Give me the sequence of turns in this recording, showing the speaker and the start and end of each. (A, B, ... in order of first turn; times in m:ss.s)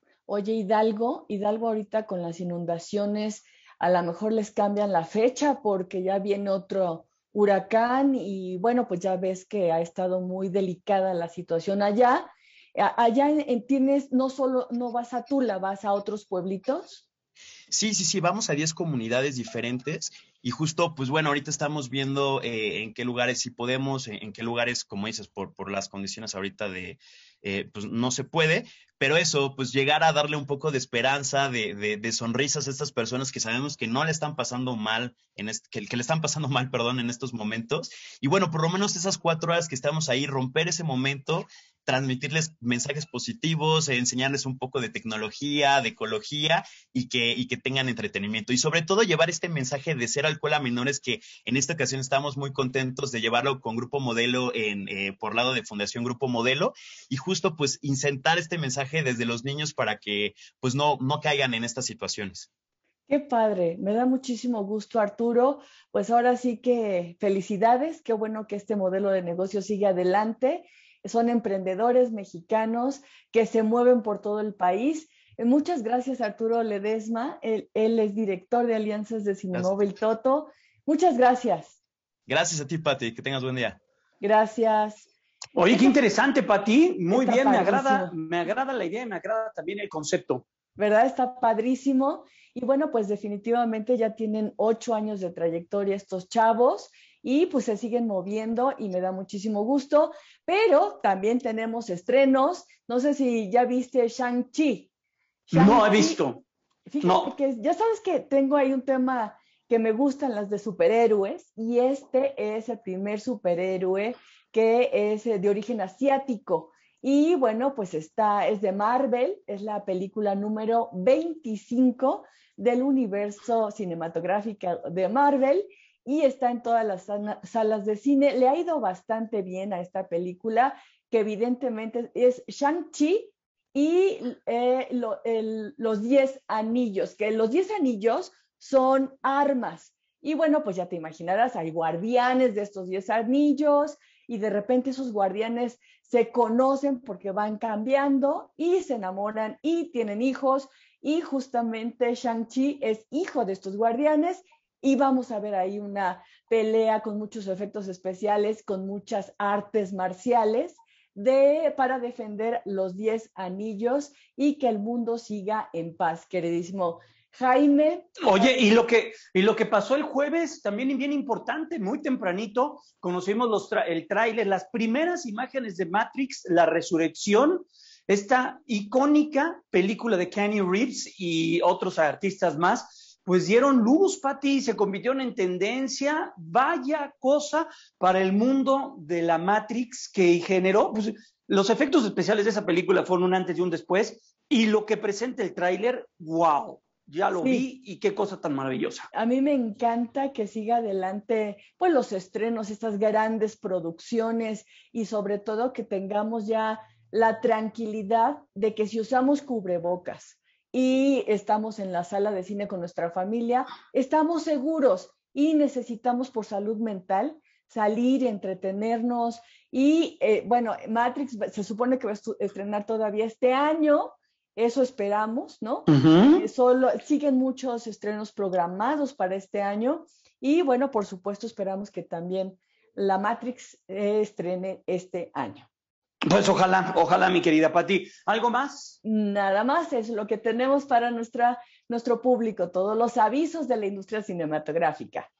0:00.3-0:17.0 A
0:17.7-1:02.5 B
1:03.1-1:21.8 A
1:19.5-1:19.8 B
1:22.3-1:23.8 B
1:24.2-1:25.1 A
1:25.6-1:30.4 C
1:27.1-1:28.1 A
1:30.8-1:44.9 A
1:45.5-1:46.2 A
1:45.5-1:46.4 C
1:46.9-2:48.1 A
1:47.0-1:47.3 C
2:48.2-3:19.1 C
3:17.4-3:17.7 A
3:19.1-3:55.7 A
3:45.9-3:46.4 C
3:56.2-3:59.0 C
3:59.0-4:05.3 A